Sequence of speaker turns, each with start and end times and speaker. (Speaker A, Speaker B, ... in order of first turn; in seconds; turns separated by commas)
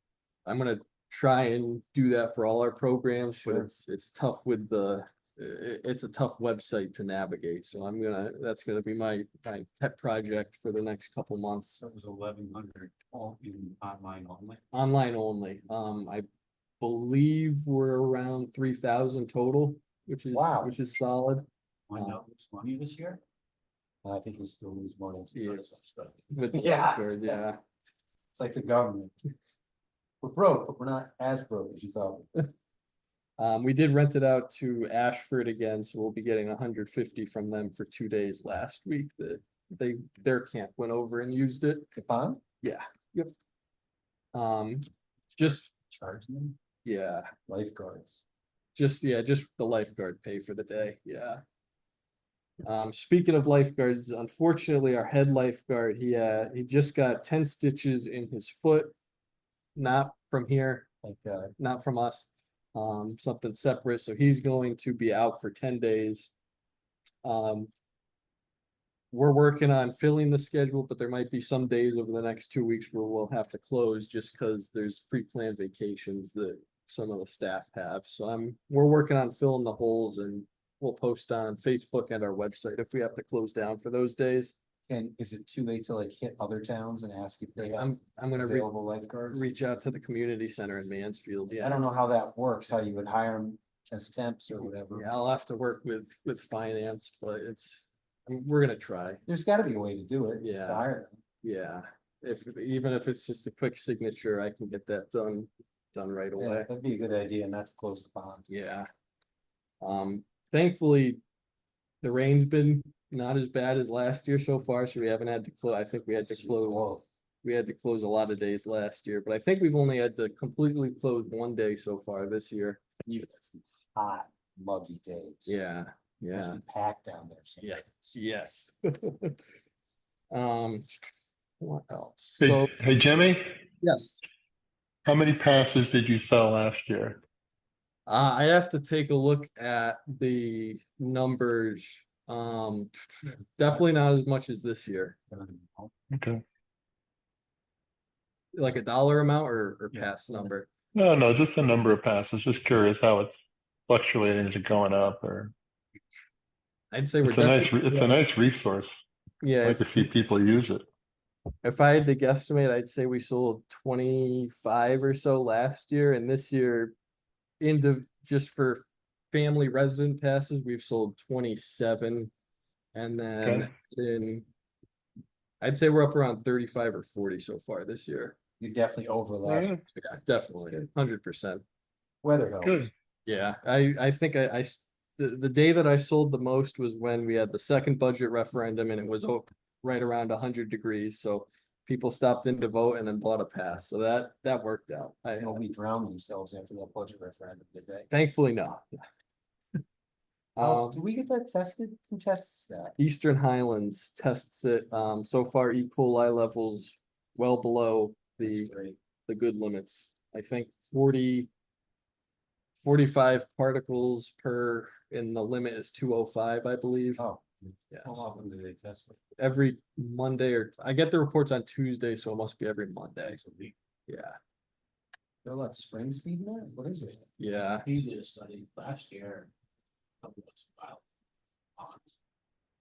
Speaker A: 0.4-11.8, Speaker B: 3.4-3.7, Speaker B: 11.8-14.6, Speaker A: 14.7-16.2, Speaker A: 16.8-21.4, Speaker B: 20.3-20.8, Speaker B: 21.9-23.2, Speaker B: 24.0-27.4, Speaker A: 25.3-25.6, Speaker A: 26.3-27.6, Speaker B: 28.3-29.2, Speaker B: 30.2-32.3, Speaker A: 33.4-41.9, Speaker B: 41.9-42.4, Speaker A: 42.6-43.3, Speaker A: 44.3-45.6, Speaker B: 45.4-46.5, Speaker A: 46.8-47.3, Speaker B: 47.5-48.2, Speaker A: 48.7-51.4, Speaker A: 52.6-58.9, Speaker A: 59.7-60.9, Speaker B: 61.0-61.5, Speaker A: 61.6-66.3, Speaker A: 67.2-67.7, Speaker A: 69.1-84.5, Speaker B: 84.9-89.5, Speaker A: 87.6-88.7, Speaker A: 89.3-91.8, Speaker B: 91.6-95.1, Speaker A: 94.9-99.2, Speaker B: 99.3-101.2, Speaker A: 100.4-100.8, Speaker A: 101.4-106.7, Speaker B: 106.4-108.5, Speaker A: 108.5-108.9, Speaker A: 109.8-111.2, Speaker A: 112.0-122.8, Speaker B: 116.1-117.0, Speaker B: 123.0-125.6, Speaker A: 125.5-126.6, Speaker B: 126.3-128.2, Speaker A: 127.6-129.4, Speaker A: 130.3-132.7, Speaker C: 132.4-133.6, Speaker A: 133.8-134.2, Speaker C: 135.0-137.2, Speaker A: 138.1-145.2, Speaker B: 145.3-145.9, Speaker C: 146.1-146.4, Speaker A: 148.5-150.7, Speaker C: 150.9-153.3, Speaker C: 153.9-155.5, Speaker A: 156.9-158.1, Speaker C: 157.2-158.9, Speaker A: 159.4-160.1, Speaker C: 159.6-160.8, Speaker A: 161.6-166.9, Speaker A: 167.6-172.3, Speaker A: 172.9-174.4, Speaker C: 173.4-173.7, Speaker A: 175.6-178.3, Speaker B: 178.6-179.7, Speaker C: 179.4-179.8, Speaker A: 179.9-181.6, Speaker B: 180.6-180.9, Speaker B: 182.2-182.9, Speaker C: 182.6-182.9, Speaker A: 183.2-195.6, Speaker B: 195.4-198.1, Speaker A: 198.1-199.0, Speaker A: 200.6-201.0, Speaker B: 200.6-202.9, Speaker A: 203.0-208.7, Speaker B: 208.4-209.0, Speaker A: 209.3-211.5, Speaker A: 212.8-217.2, Speaker B: 217.2-219.2, Speaker A: 217.9-218.2, Speaker A: 219.4-223.4, Speaker A: 224.1-224.4, Speaker B: 225.4-227.2, Speaker A: 227.4-228.1, Speaker D: 227.7-229.5, Speaker D: 230.2-231.0, Speaker D: 231.8-232.1